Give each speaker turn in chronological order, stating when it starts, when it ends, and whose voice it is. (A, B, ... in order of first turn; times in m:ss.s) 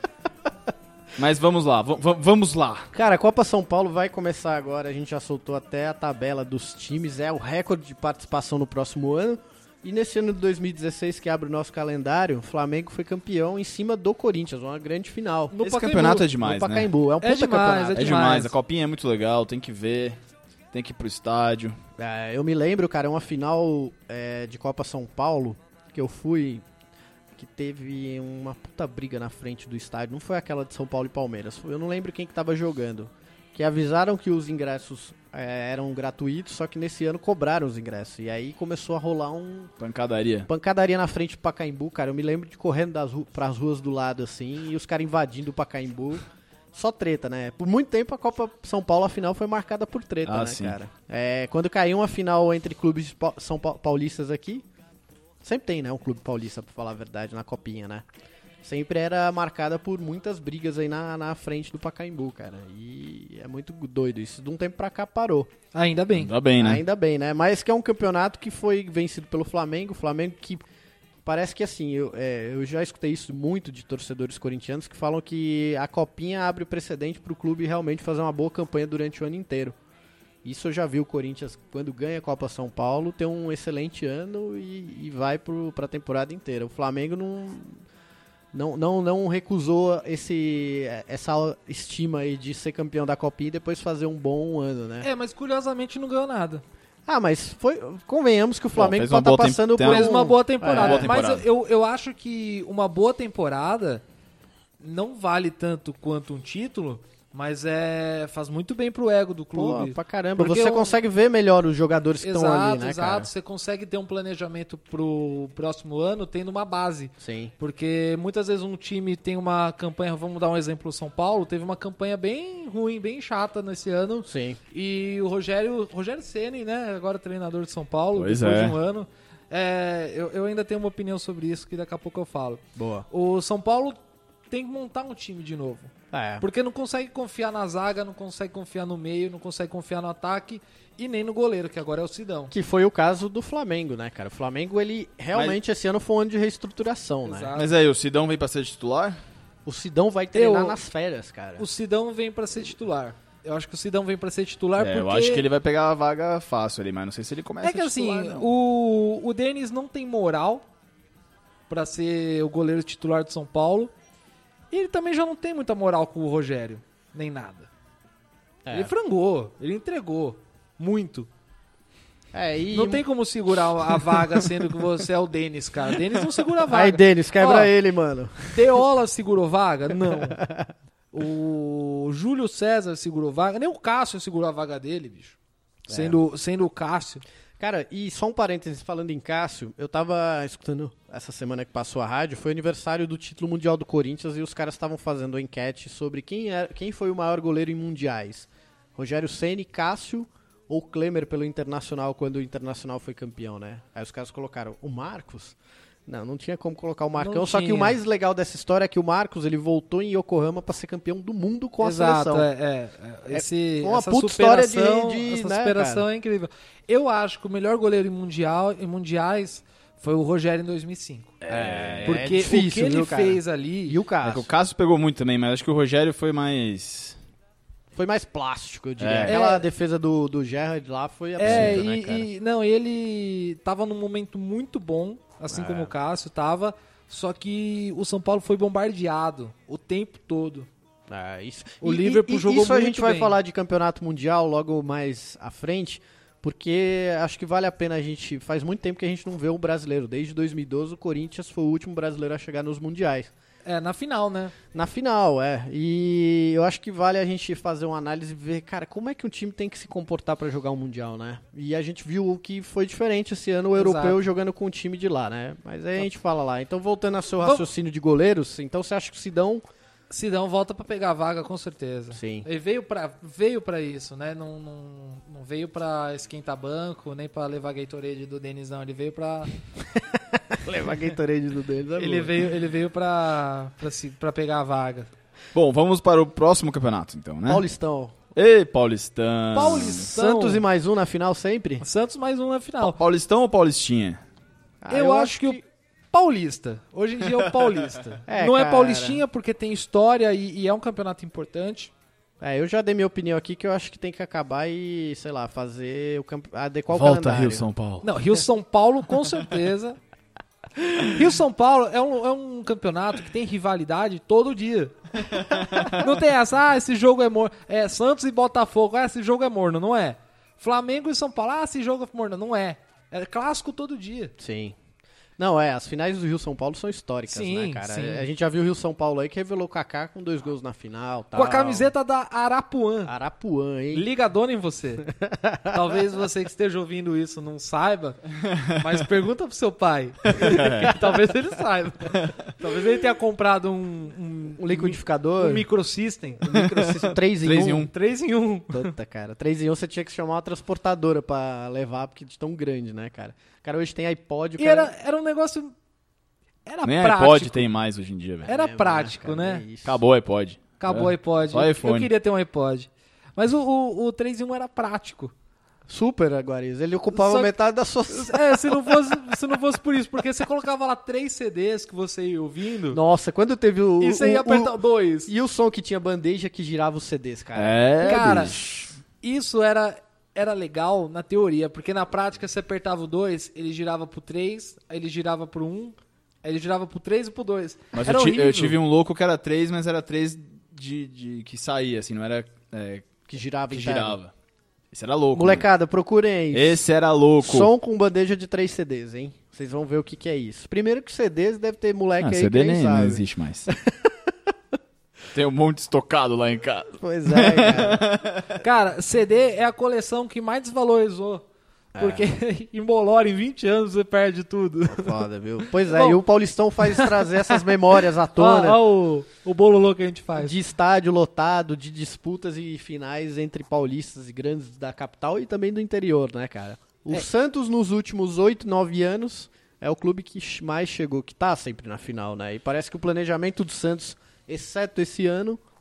0:01.2-0:02.9 A
0:02.9-0:15.5 B
0:15.5-0:16.3 C
0:15.6-0:16.9 A
0:16.2-0:18.3 B
0:17.2-0:18.5 C
0:17.9-0:20.2 A
0:20.7-0:21.8 A
0:22.0-0:26.6 B
0:27.3-0:39.7 B
0:39.8-0:40.5 A
0:40.5-0:54.6 B
0:50.2-0:50.8 A
0:55.4-0:58.0 B
0:58.6-1:05.5 B
1:05.7-1:06.3 C
1:06.2-1:06.8 A
1:06.6-1:10.7 B
1:11.2-1:19.8 B
1:20.4-1:27.8 B
1:28.5-1:35.1 B
1:35.0-1:36.6 C
1:37.0-1:41.2 B
1:38.7-1:40.1 A
1:39.8-1:44.0 C
1:40.7-1:41.4 A
1:44.8-1:50.9 C
1:49.5-1:53.3 B
1:52.2-2:14.0 C
1:57.2-1:57.5 B
2:04.3-2:04.6 B
2:08.1-2:08.8 A
2:12.7-2:13.0 B
2:14.5-2:22.5 C
2:16.1-2:16.4 B
2:22.5-2:27.5 B
2:25.3-2:25.6 A
2:27.2-2:27.7 C
2:27.5-2:29.2 A
2:29.6-2:31.6 B
2:30.3-2:30.8 C
2:31.6-2:35.4 C
2:34.8-2:38.5 A
2:37.6-2:40.6 C
2:41.7-2:43.9 C
2:44.7-2:47.7 C
2:48.6-2:48.9 B
2:48.7-2:51.3 C
2:52.3-2:53.0 B
2:52.7-2:57.7 C
2:53.9-2:54.7 B
2:56.6-2:58.7 B
2:58.5-3:00.4 C
3:00.0-3:00.7 B
3:01.1-3:07.2 C
3:05.9-3:06.2 B
3:07.6-3:32.5 B
3:27.2-3:28.0 C
3:31.8-3:41.4 C
3:33.3-3:36.0 B
3:41.4-3:42.2 A
3:41.5-3:44.5 B
3:42.0-3:44.0 C
3:44.2-3:47.2 A
3:47.9-3:52.3 B
3:49.0-3:49.4 A
3:49.3-3:49.6 C
3:51.4-4:00.7 C
3:51.4-3:51.8 A
3:55.5-3:55.9 B
4:01.1-4:13.3 B
4:01.8-4:03.4 C
4:13.6-4:14.5 C
4:14.7-4:29.6 B
4:23.8-4:24.2 C
4:30.1-4:39.5 C
4:32.1-4:32.4 B
4:40.0-4:42.4 B
4:42.0-4:45.1 C
4:45.5-4:47.6 A
4:47.5-4:48.2 B
4:48.3-4:50.1 A
4:49.5-4:50.6 C
4:49.9-4:51.8 B
4:51.8-4:53.0 C
4:52.8-4:54.2 A
4:54.8-4:55.6 B
4:54.9-5:01.9 C
4:58.2-4:59.2 B
5:02.4-5:07.7 B
5:06.9-5:08.0 A
5:08.0-5:10.0 C
5:11.0-5:15.1 C
5:15.6-5:15.9 A
5:15.8-5:24.3 C
5:24.4-5:24.8 B
5:25.4-5:31.9 B
5:27.3-5:28.3 C
5:31.3-5:33.1 C
5:33.0-5:34.1 B
5:33.9-5:35.1 C
5:35.1-5:35.8 B
5:35.7-5:46.4 C
5:40.4-5:41.0 A
5:44.6-5:45.7 B
5:46.4-5:47.9 B
5:46.5-5:47.9 A
5:47.9-5:48.9 C
5:48.7-5:54.9 B
5:54.6-5:55.7 C
5:56.6-5:57.7 C
5:56.8-5:58.5 A
5:58.4-5:59.6 C
5:58.4-6:00.0 B
5:59.8-6:02.1 A
6:00.8-6:05.3 C
6:05.9-6:09.2 B
6:07.1-6:07.5 C
6:08.1-6:13.0 C
6:12.9-6:17.8 B
6:14.0-6:15.3 C
6:17.5-6:18.9 A
6:18.0-6:28.8 C
6:27.9-6:33.2 A
6:33.3-6:34.2 B
6:33.7-6:34.3 A
6:34.9-6:35.6 A
6:35.3-6:36.8 B
6:36.5-6:37.7 A
6:37.4-6:44.3 B
6:42.2-6:43.7 A
6:45.3-6:48.6 A
6:47.0-6:48.0 B
6:48.6-6:51.4 C
6:51.9-6:52.2 B
6:52.0-6:55.2 C
6:54.9-6:58.8 B
6:55.8-6:56.2 C
6:56.8-6:57.6 C
6:58.3-7:00.6 C
7:00.4-7:15.6 B